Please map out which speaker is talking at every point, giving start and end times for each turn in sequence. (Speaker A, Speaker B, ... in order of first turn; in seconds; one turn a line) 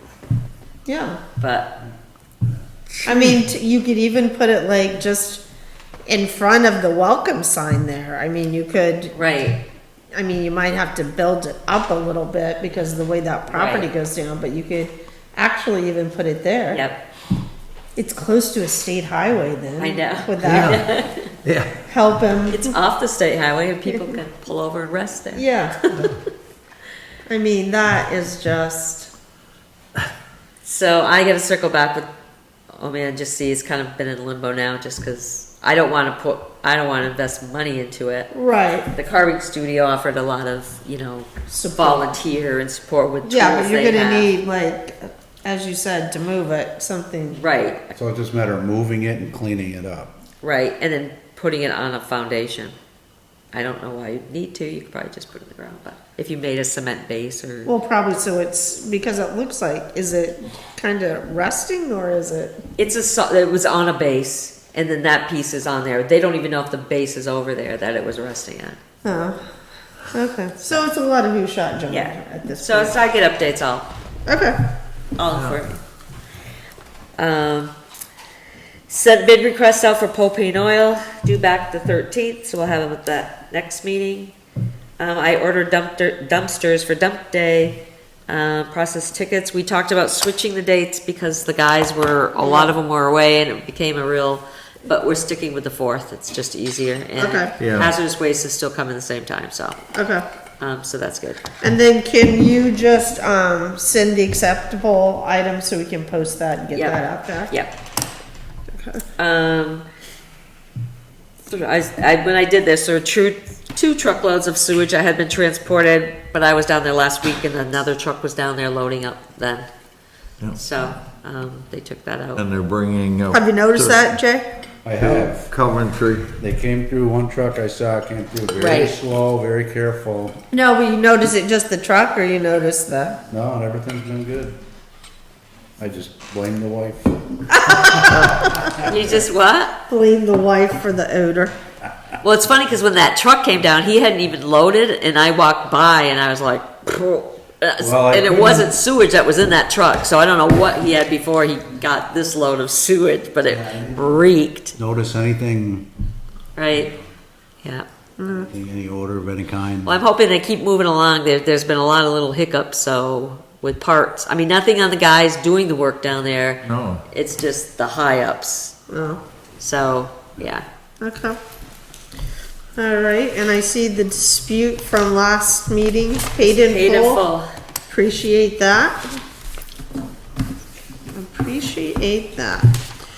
Speaker A: 0.8-1.2
Speaker B: 1.4-1.7
Speaker A: 3.0-5.4
Speaker A: 6.1-9.1
Speaker B: 9.1-9.6
Speaker A: 10.1-16.8
Speaker B: 13.5-13.9
Speaker B: 16.7-17.0
Speaker A: 17.9-20.9
Speaker B: 19.8-21.3
Speaker C: 20.4-20.8
Speaker A: 21.8-22.8
Speaker B: 22.5-26.2
Speaker A: 23.9-24.2
Speaker A: 25.3-25.8
Speaker A: 27.3-29.1
Speaker B: 30.6-32.1
Speaker B: 32.7-38.3
Speaker A: 38.3-38.9
Speaker B: 38.9-44.3
Speaker A: 41.5-42.1
Speaker A: 43.2-47.4
Speaker B: 47.3-47.9
Speaker C: 47.9-50.1
Speaker B: 50.4-52.7
Speaker B: 53.5-57.7
Speaker A: 57.6-62.6
Speaker B: 62.8-68.8
Speaker A: 69.0-69.4
Speaker A: 70.1-73.0
Speaker B: 71.9-73.9
Speaker A: 74.3-74.6
Speaker B: 75.2-75.8
Speaker D: 75.3-75.6
Speaker B: 77.2-77.7
Speaker B: 78.9-84.3
Speaker B: 85.0-99.8
Speaker A: 92.4-92.7
Speaker A: 97.2-97.5
Speaker D: 97.6-97.9
Speaker A: 99.9-100.2
Speaker B: 100.6-101.4
Speaker A: 101.6-107.5
Speaker B: 106.7-107.7
Speaker A: 108.8-109.0
Speaker B: 109.2-109.8
Speaker B: 111.5-119.7
Speaker B: 120.5-122.4
Speaker D: 122.3-124.1
Speaker A: 123.3-124.5
Speaker C: 124.8-125.5
Speaker D: 124.9-126.3
Speaker C: 126.4-130.4
Speaker B: 128.6-128.9
Speaker A: 130.5-133.2
Speaker C: 133.3-134.6
Speaker C: 135.8-137.2
Speaker A: 137.5-138.9
Speaker B: 138.8-139.7
Speaker A: 139.9-141.6
Speaker B: 142.2-154.7
Speaker C: 147.8-148.7
Speaker C: 153.4-154.2
Speaker C: 154.7-155.9
Speaker B: 156.6-156.9
Speaker A: 158.2-158.5
Speaker C: 158.4-159.9
Speaker B: 159.8-168.7
Speaker D: 166.6-167.0
Speaker A: 168.9-169.2
Speaker B: 169.6-170.6
Speaker A: 171.0-171.4
Speaker A: 172.8-177.2
Speaker B: 176.4-177.4
Speaker A: 177.9-179.1
Speaker A: 181.1-182.8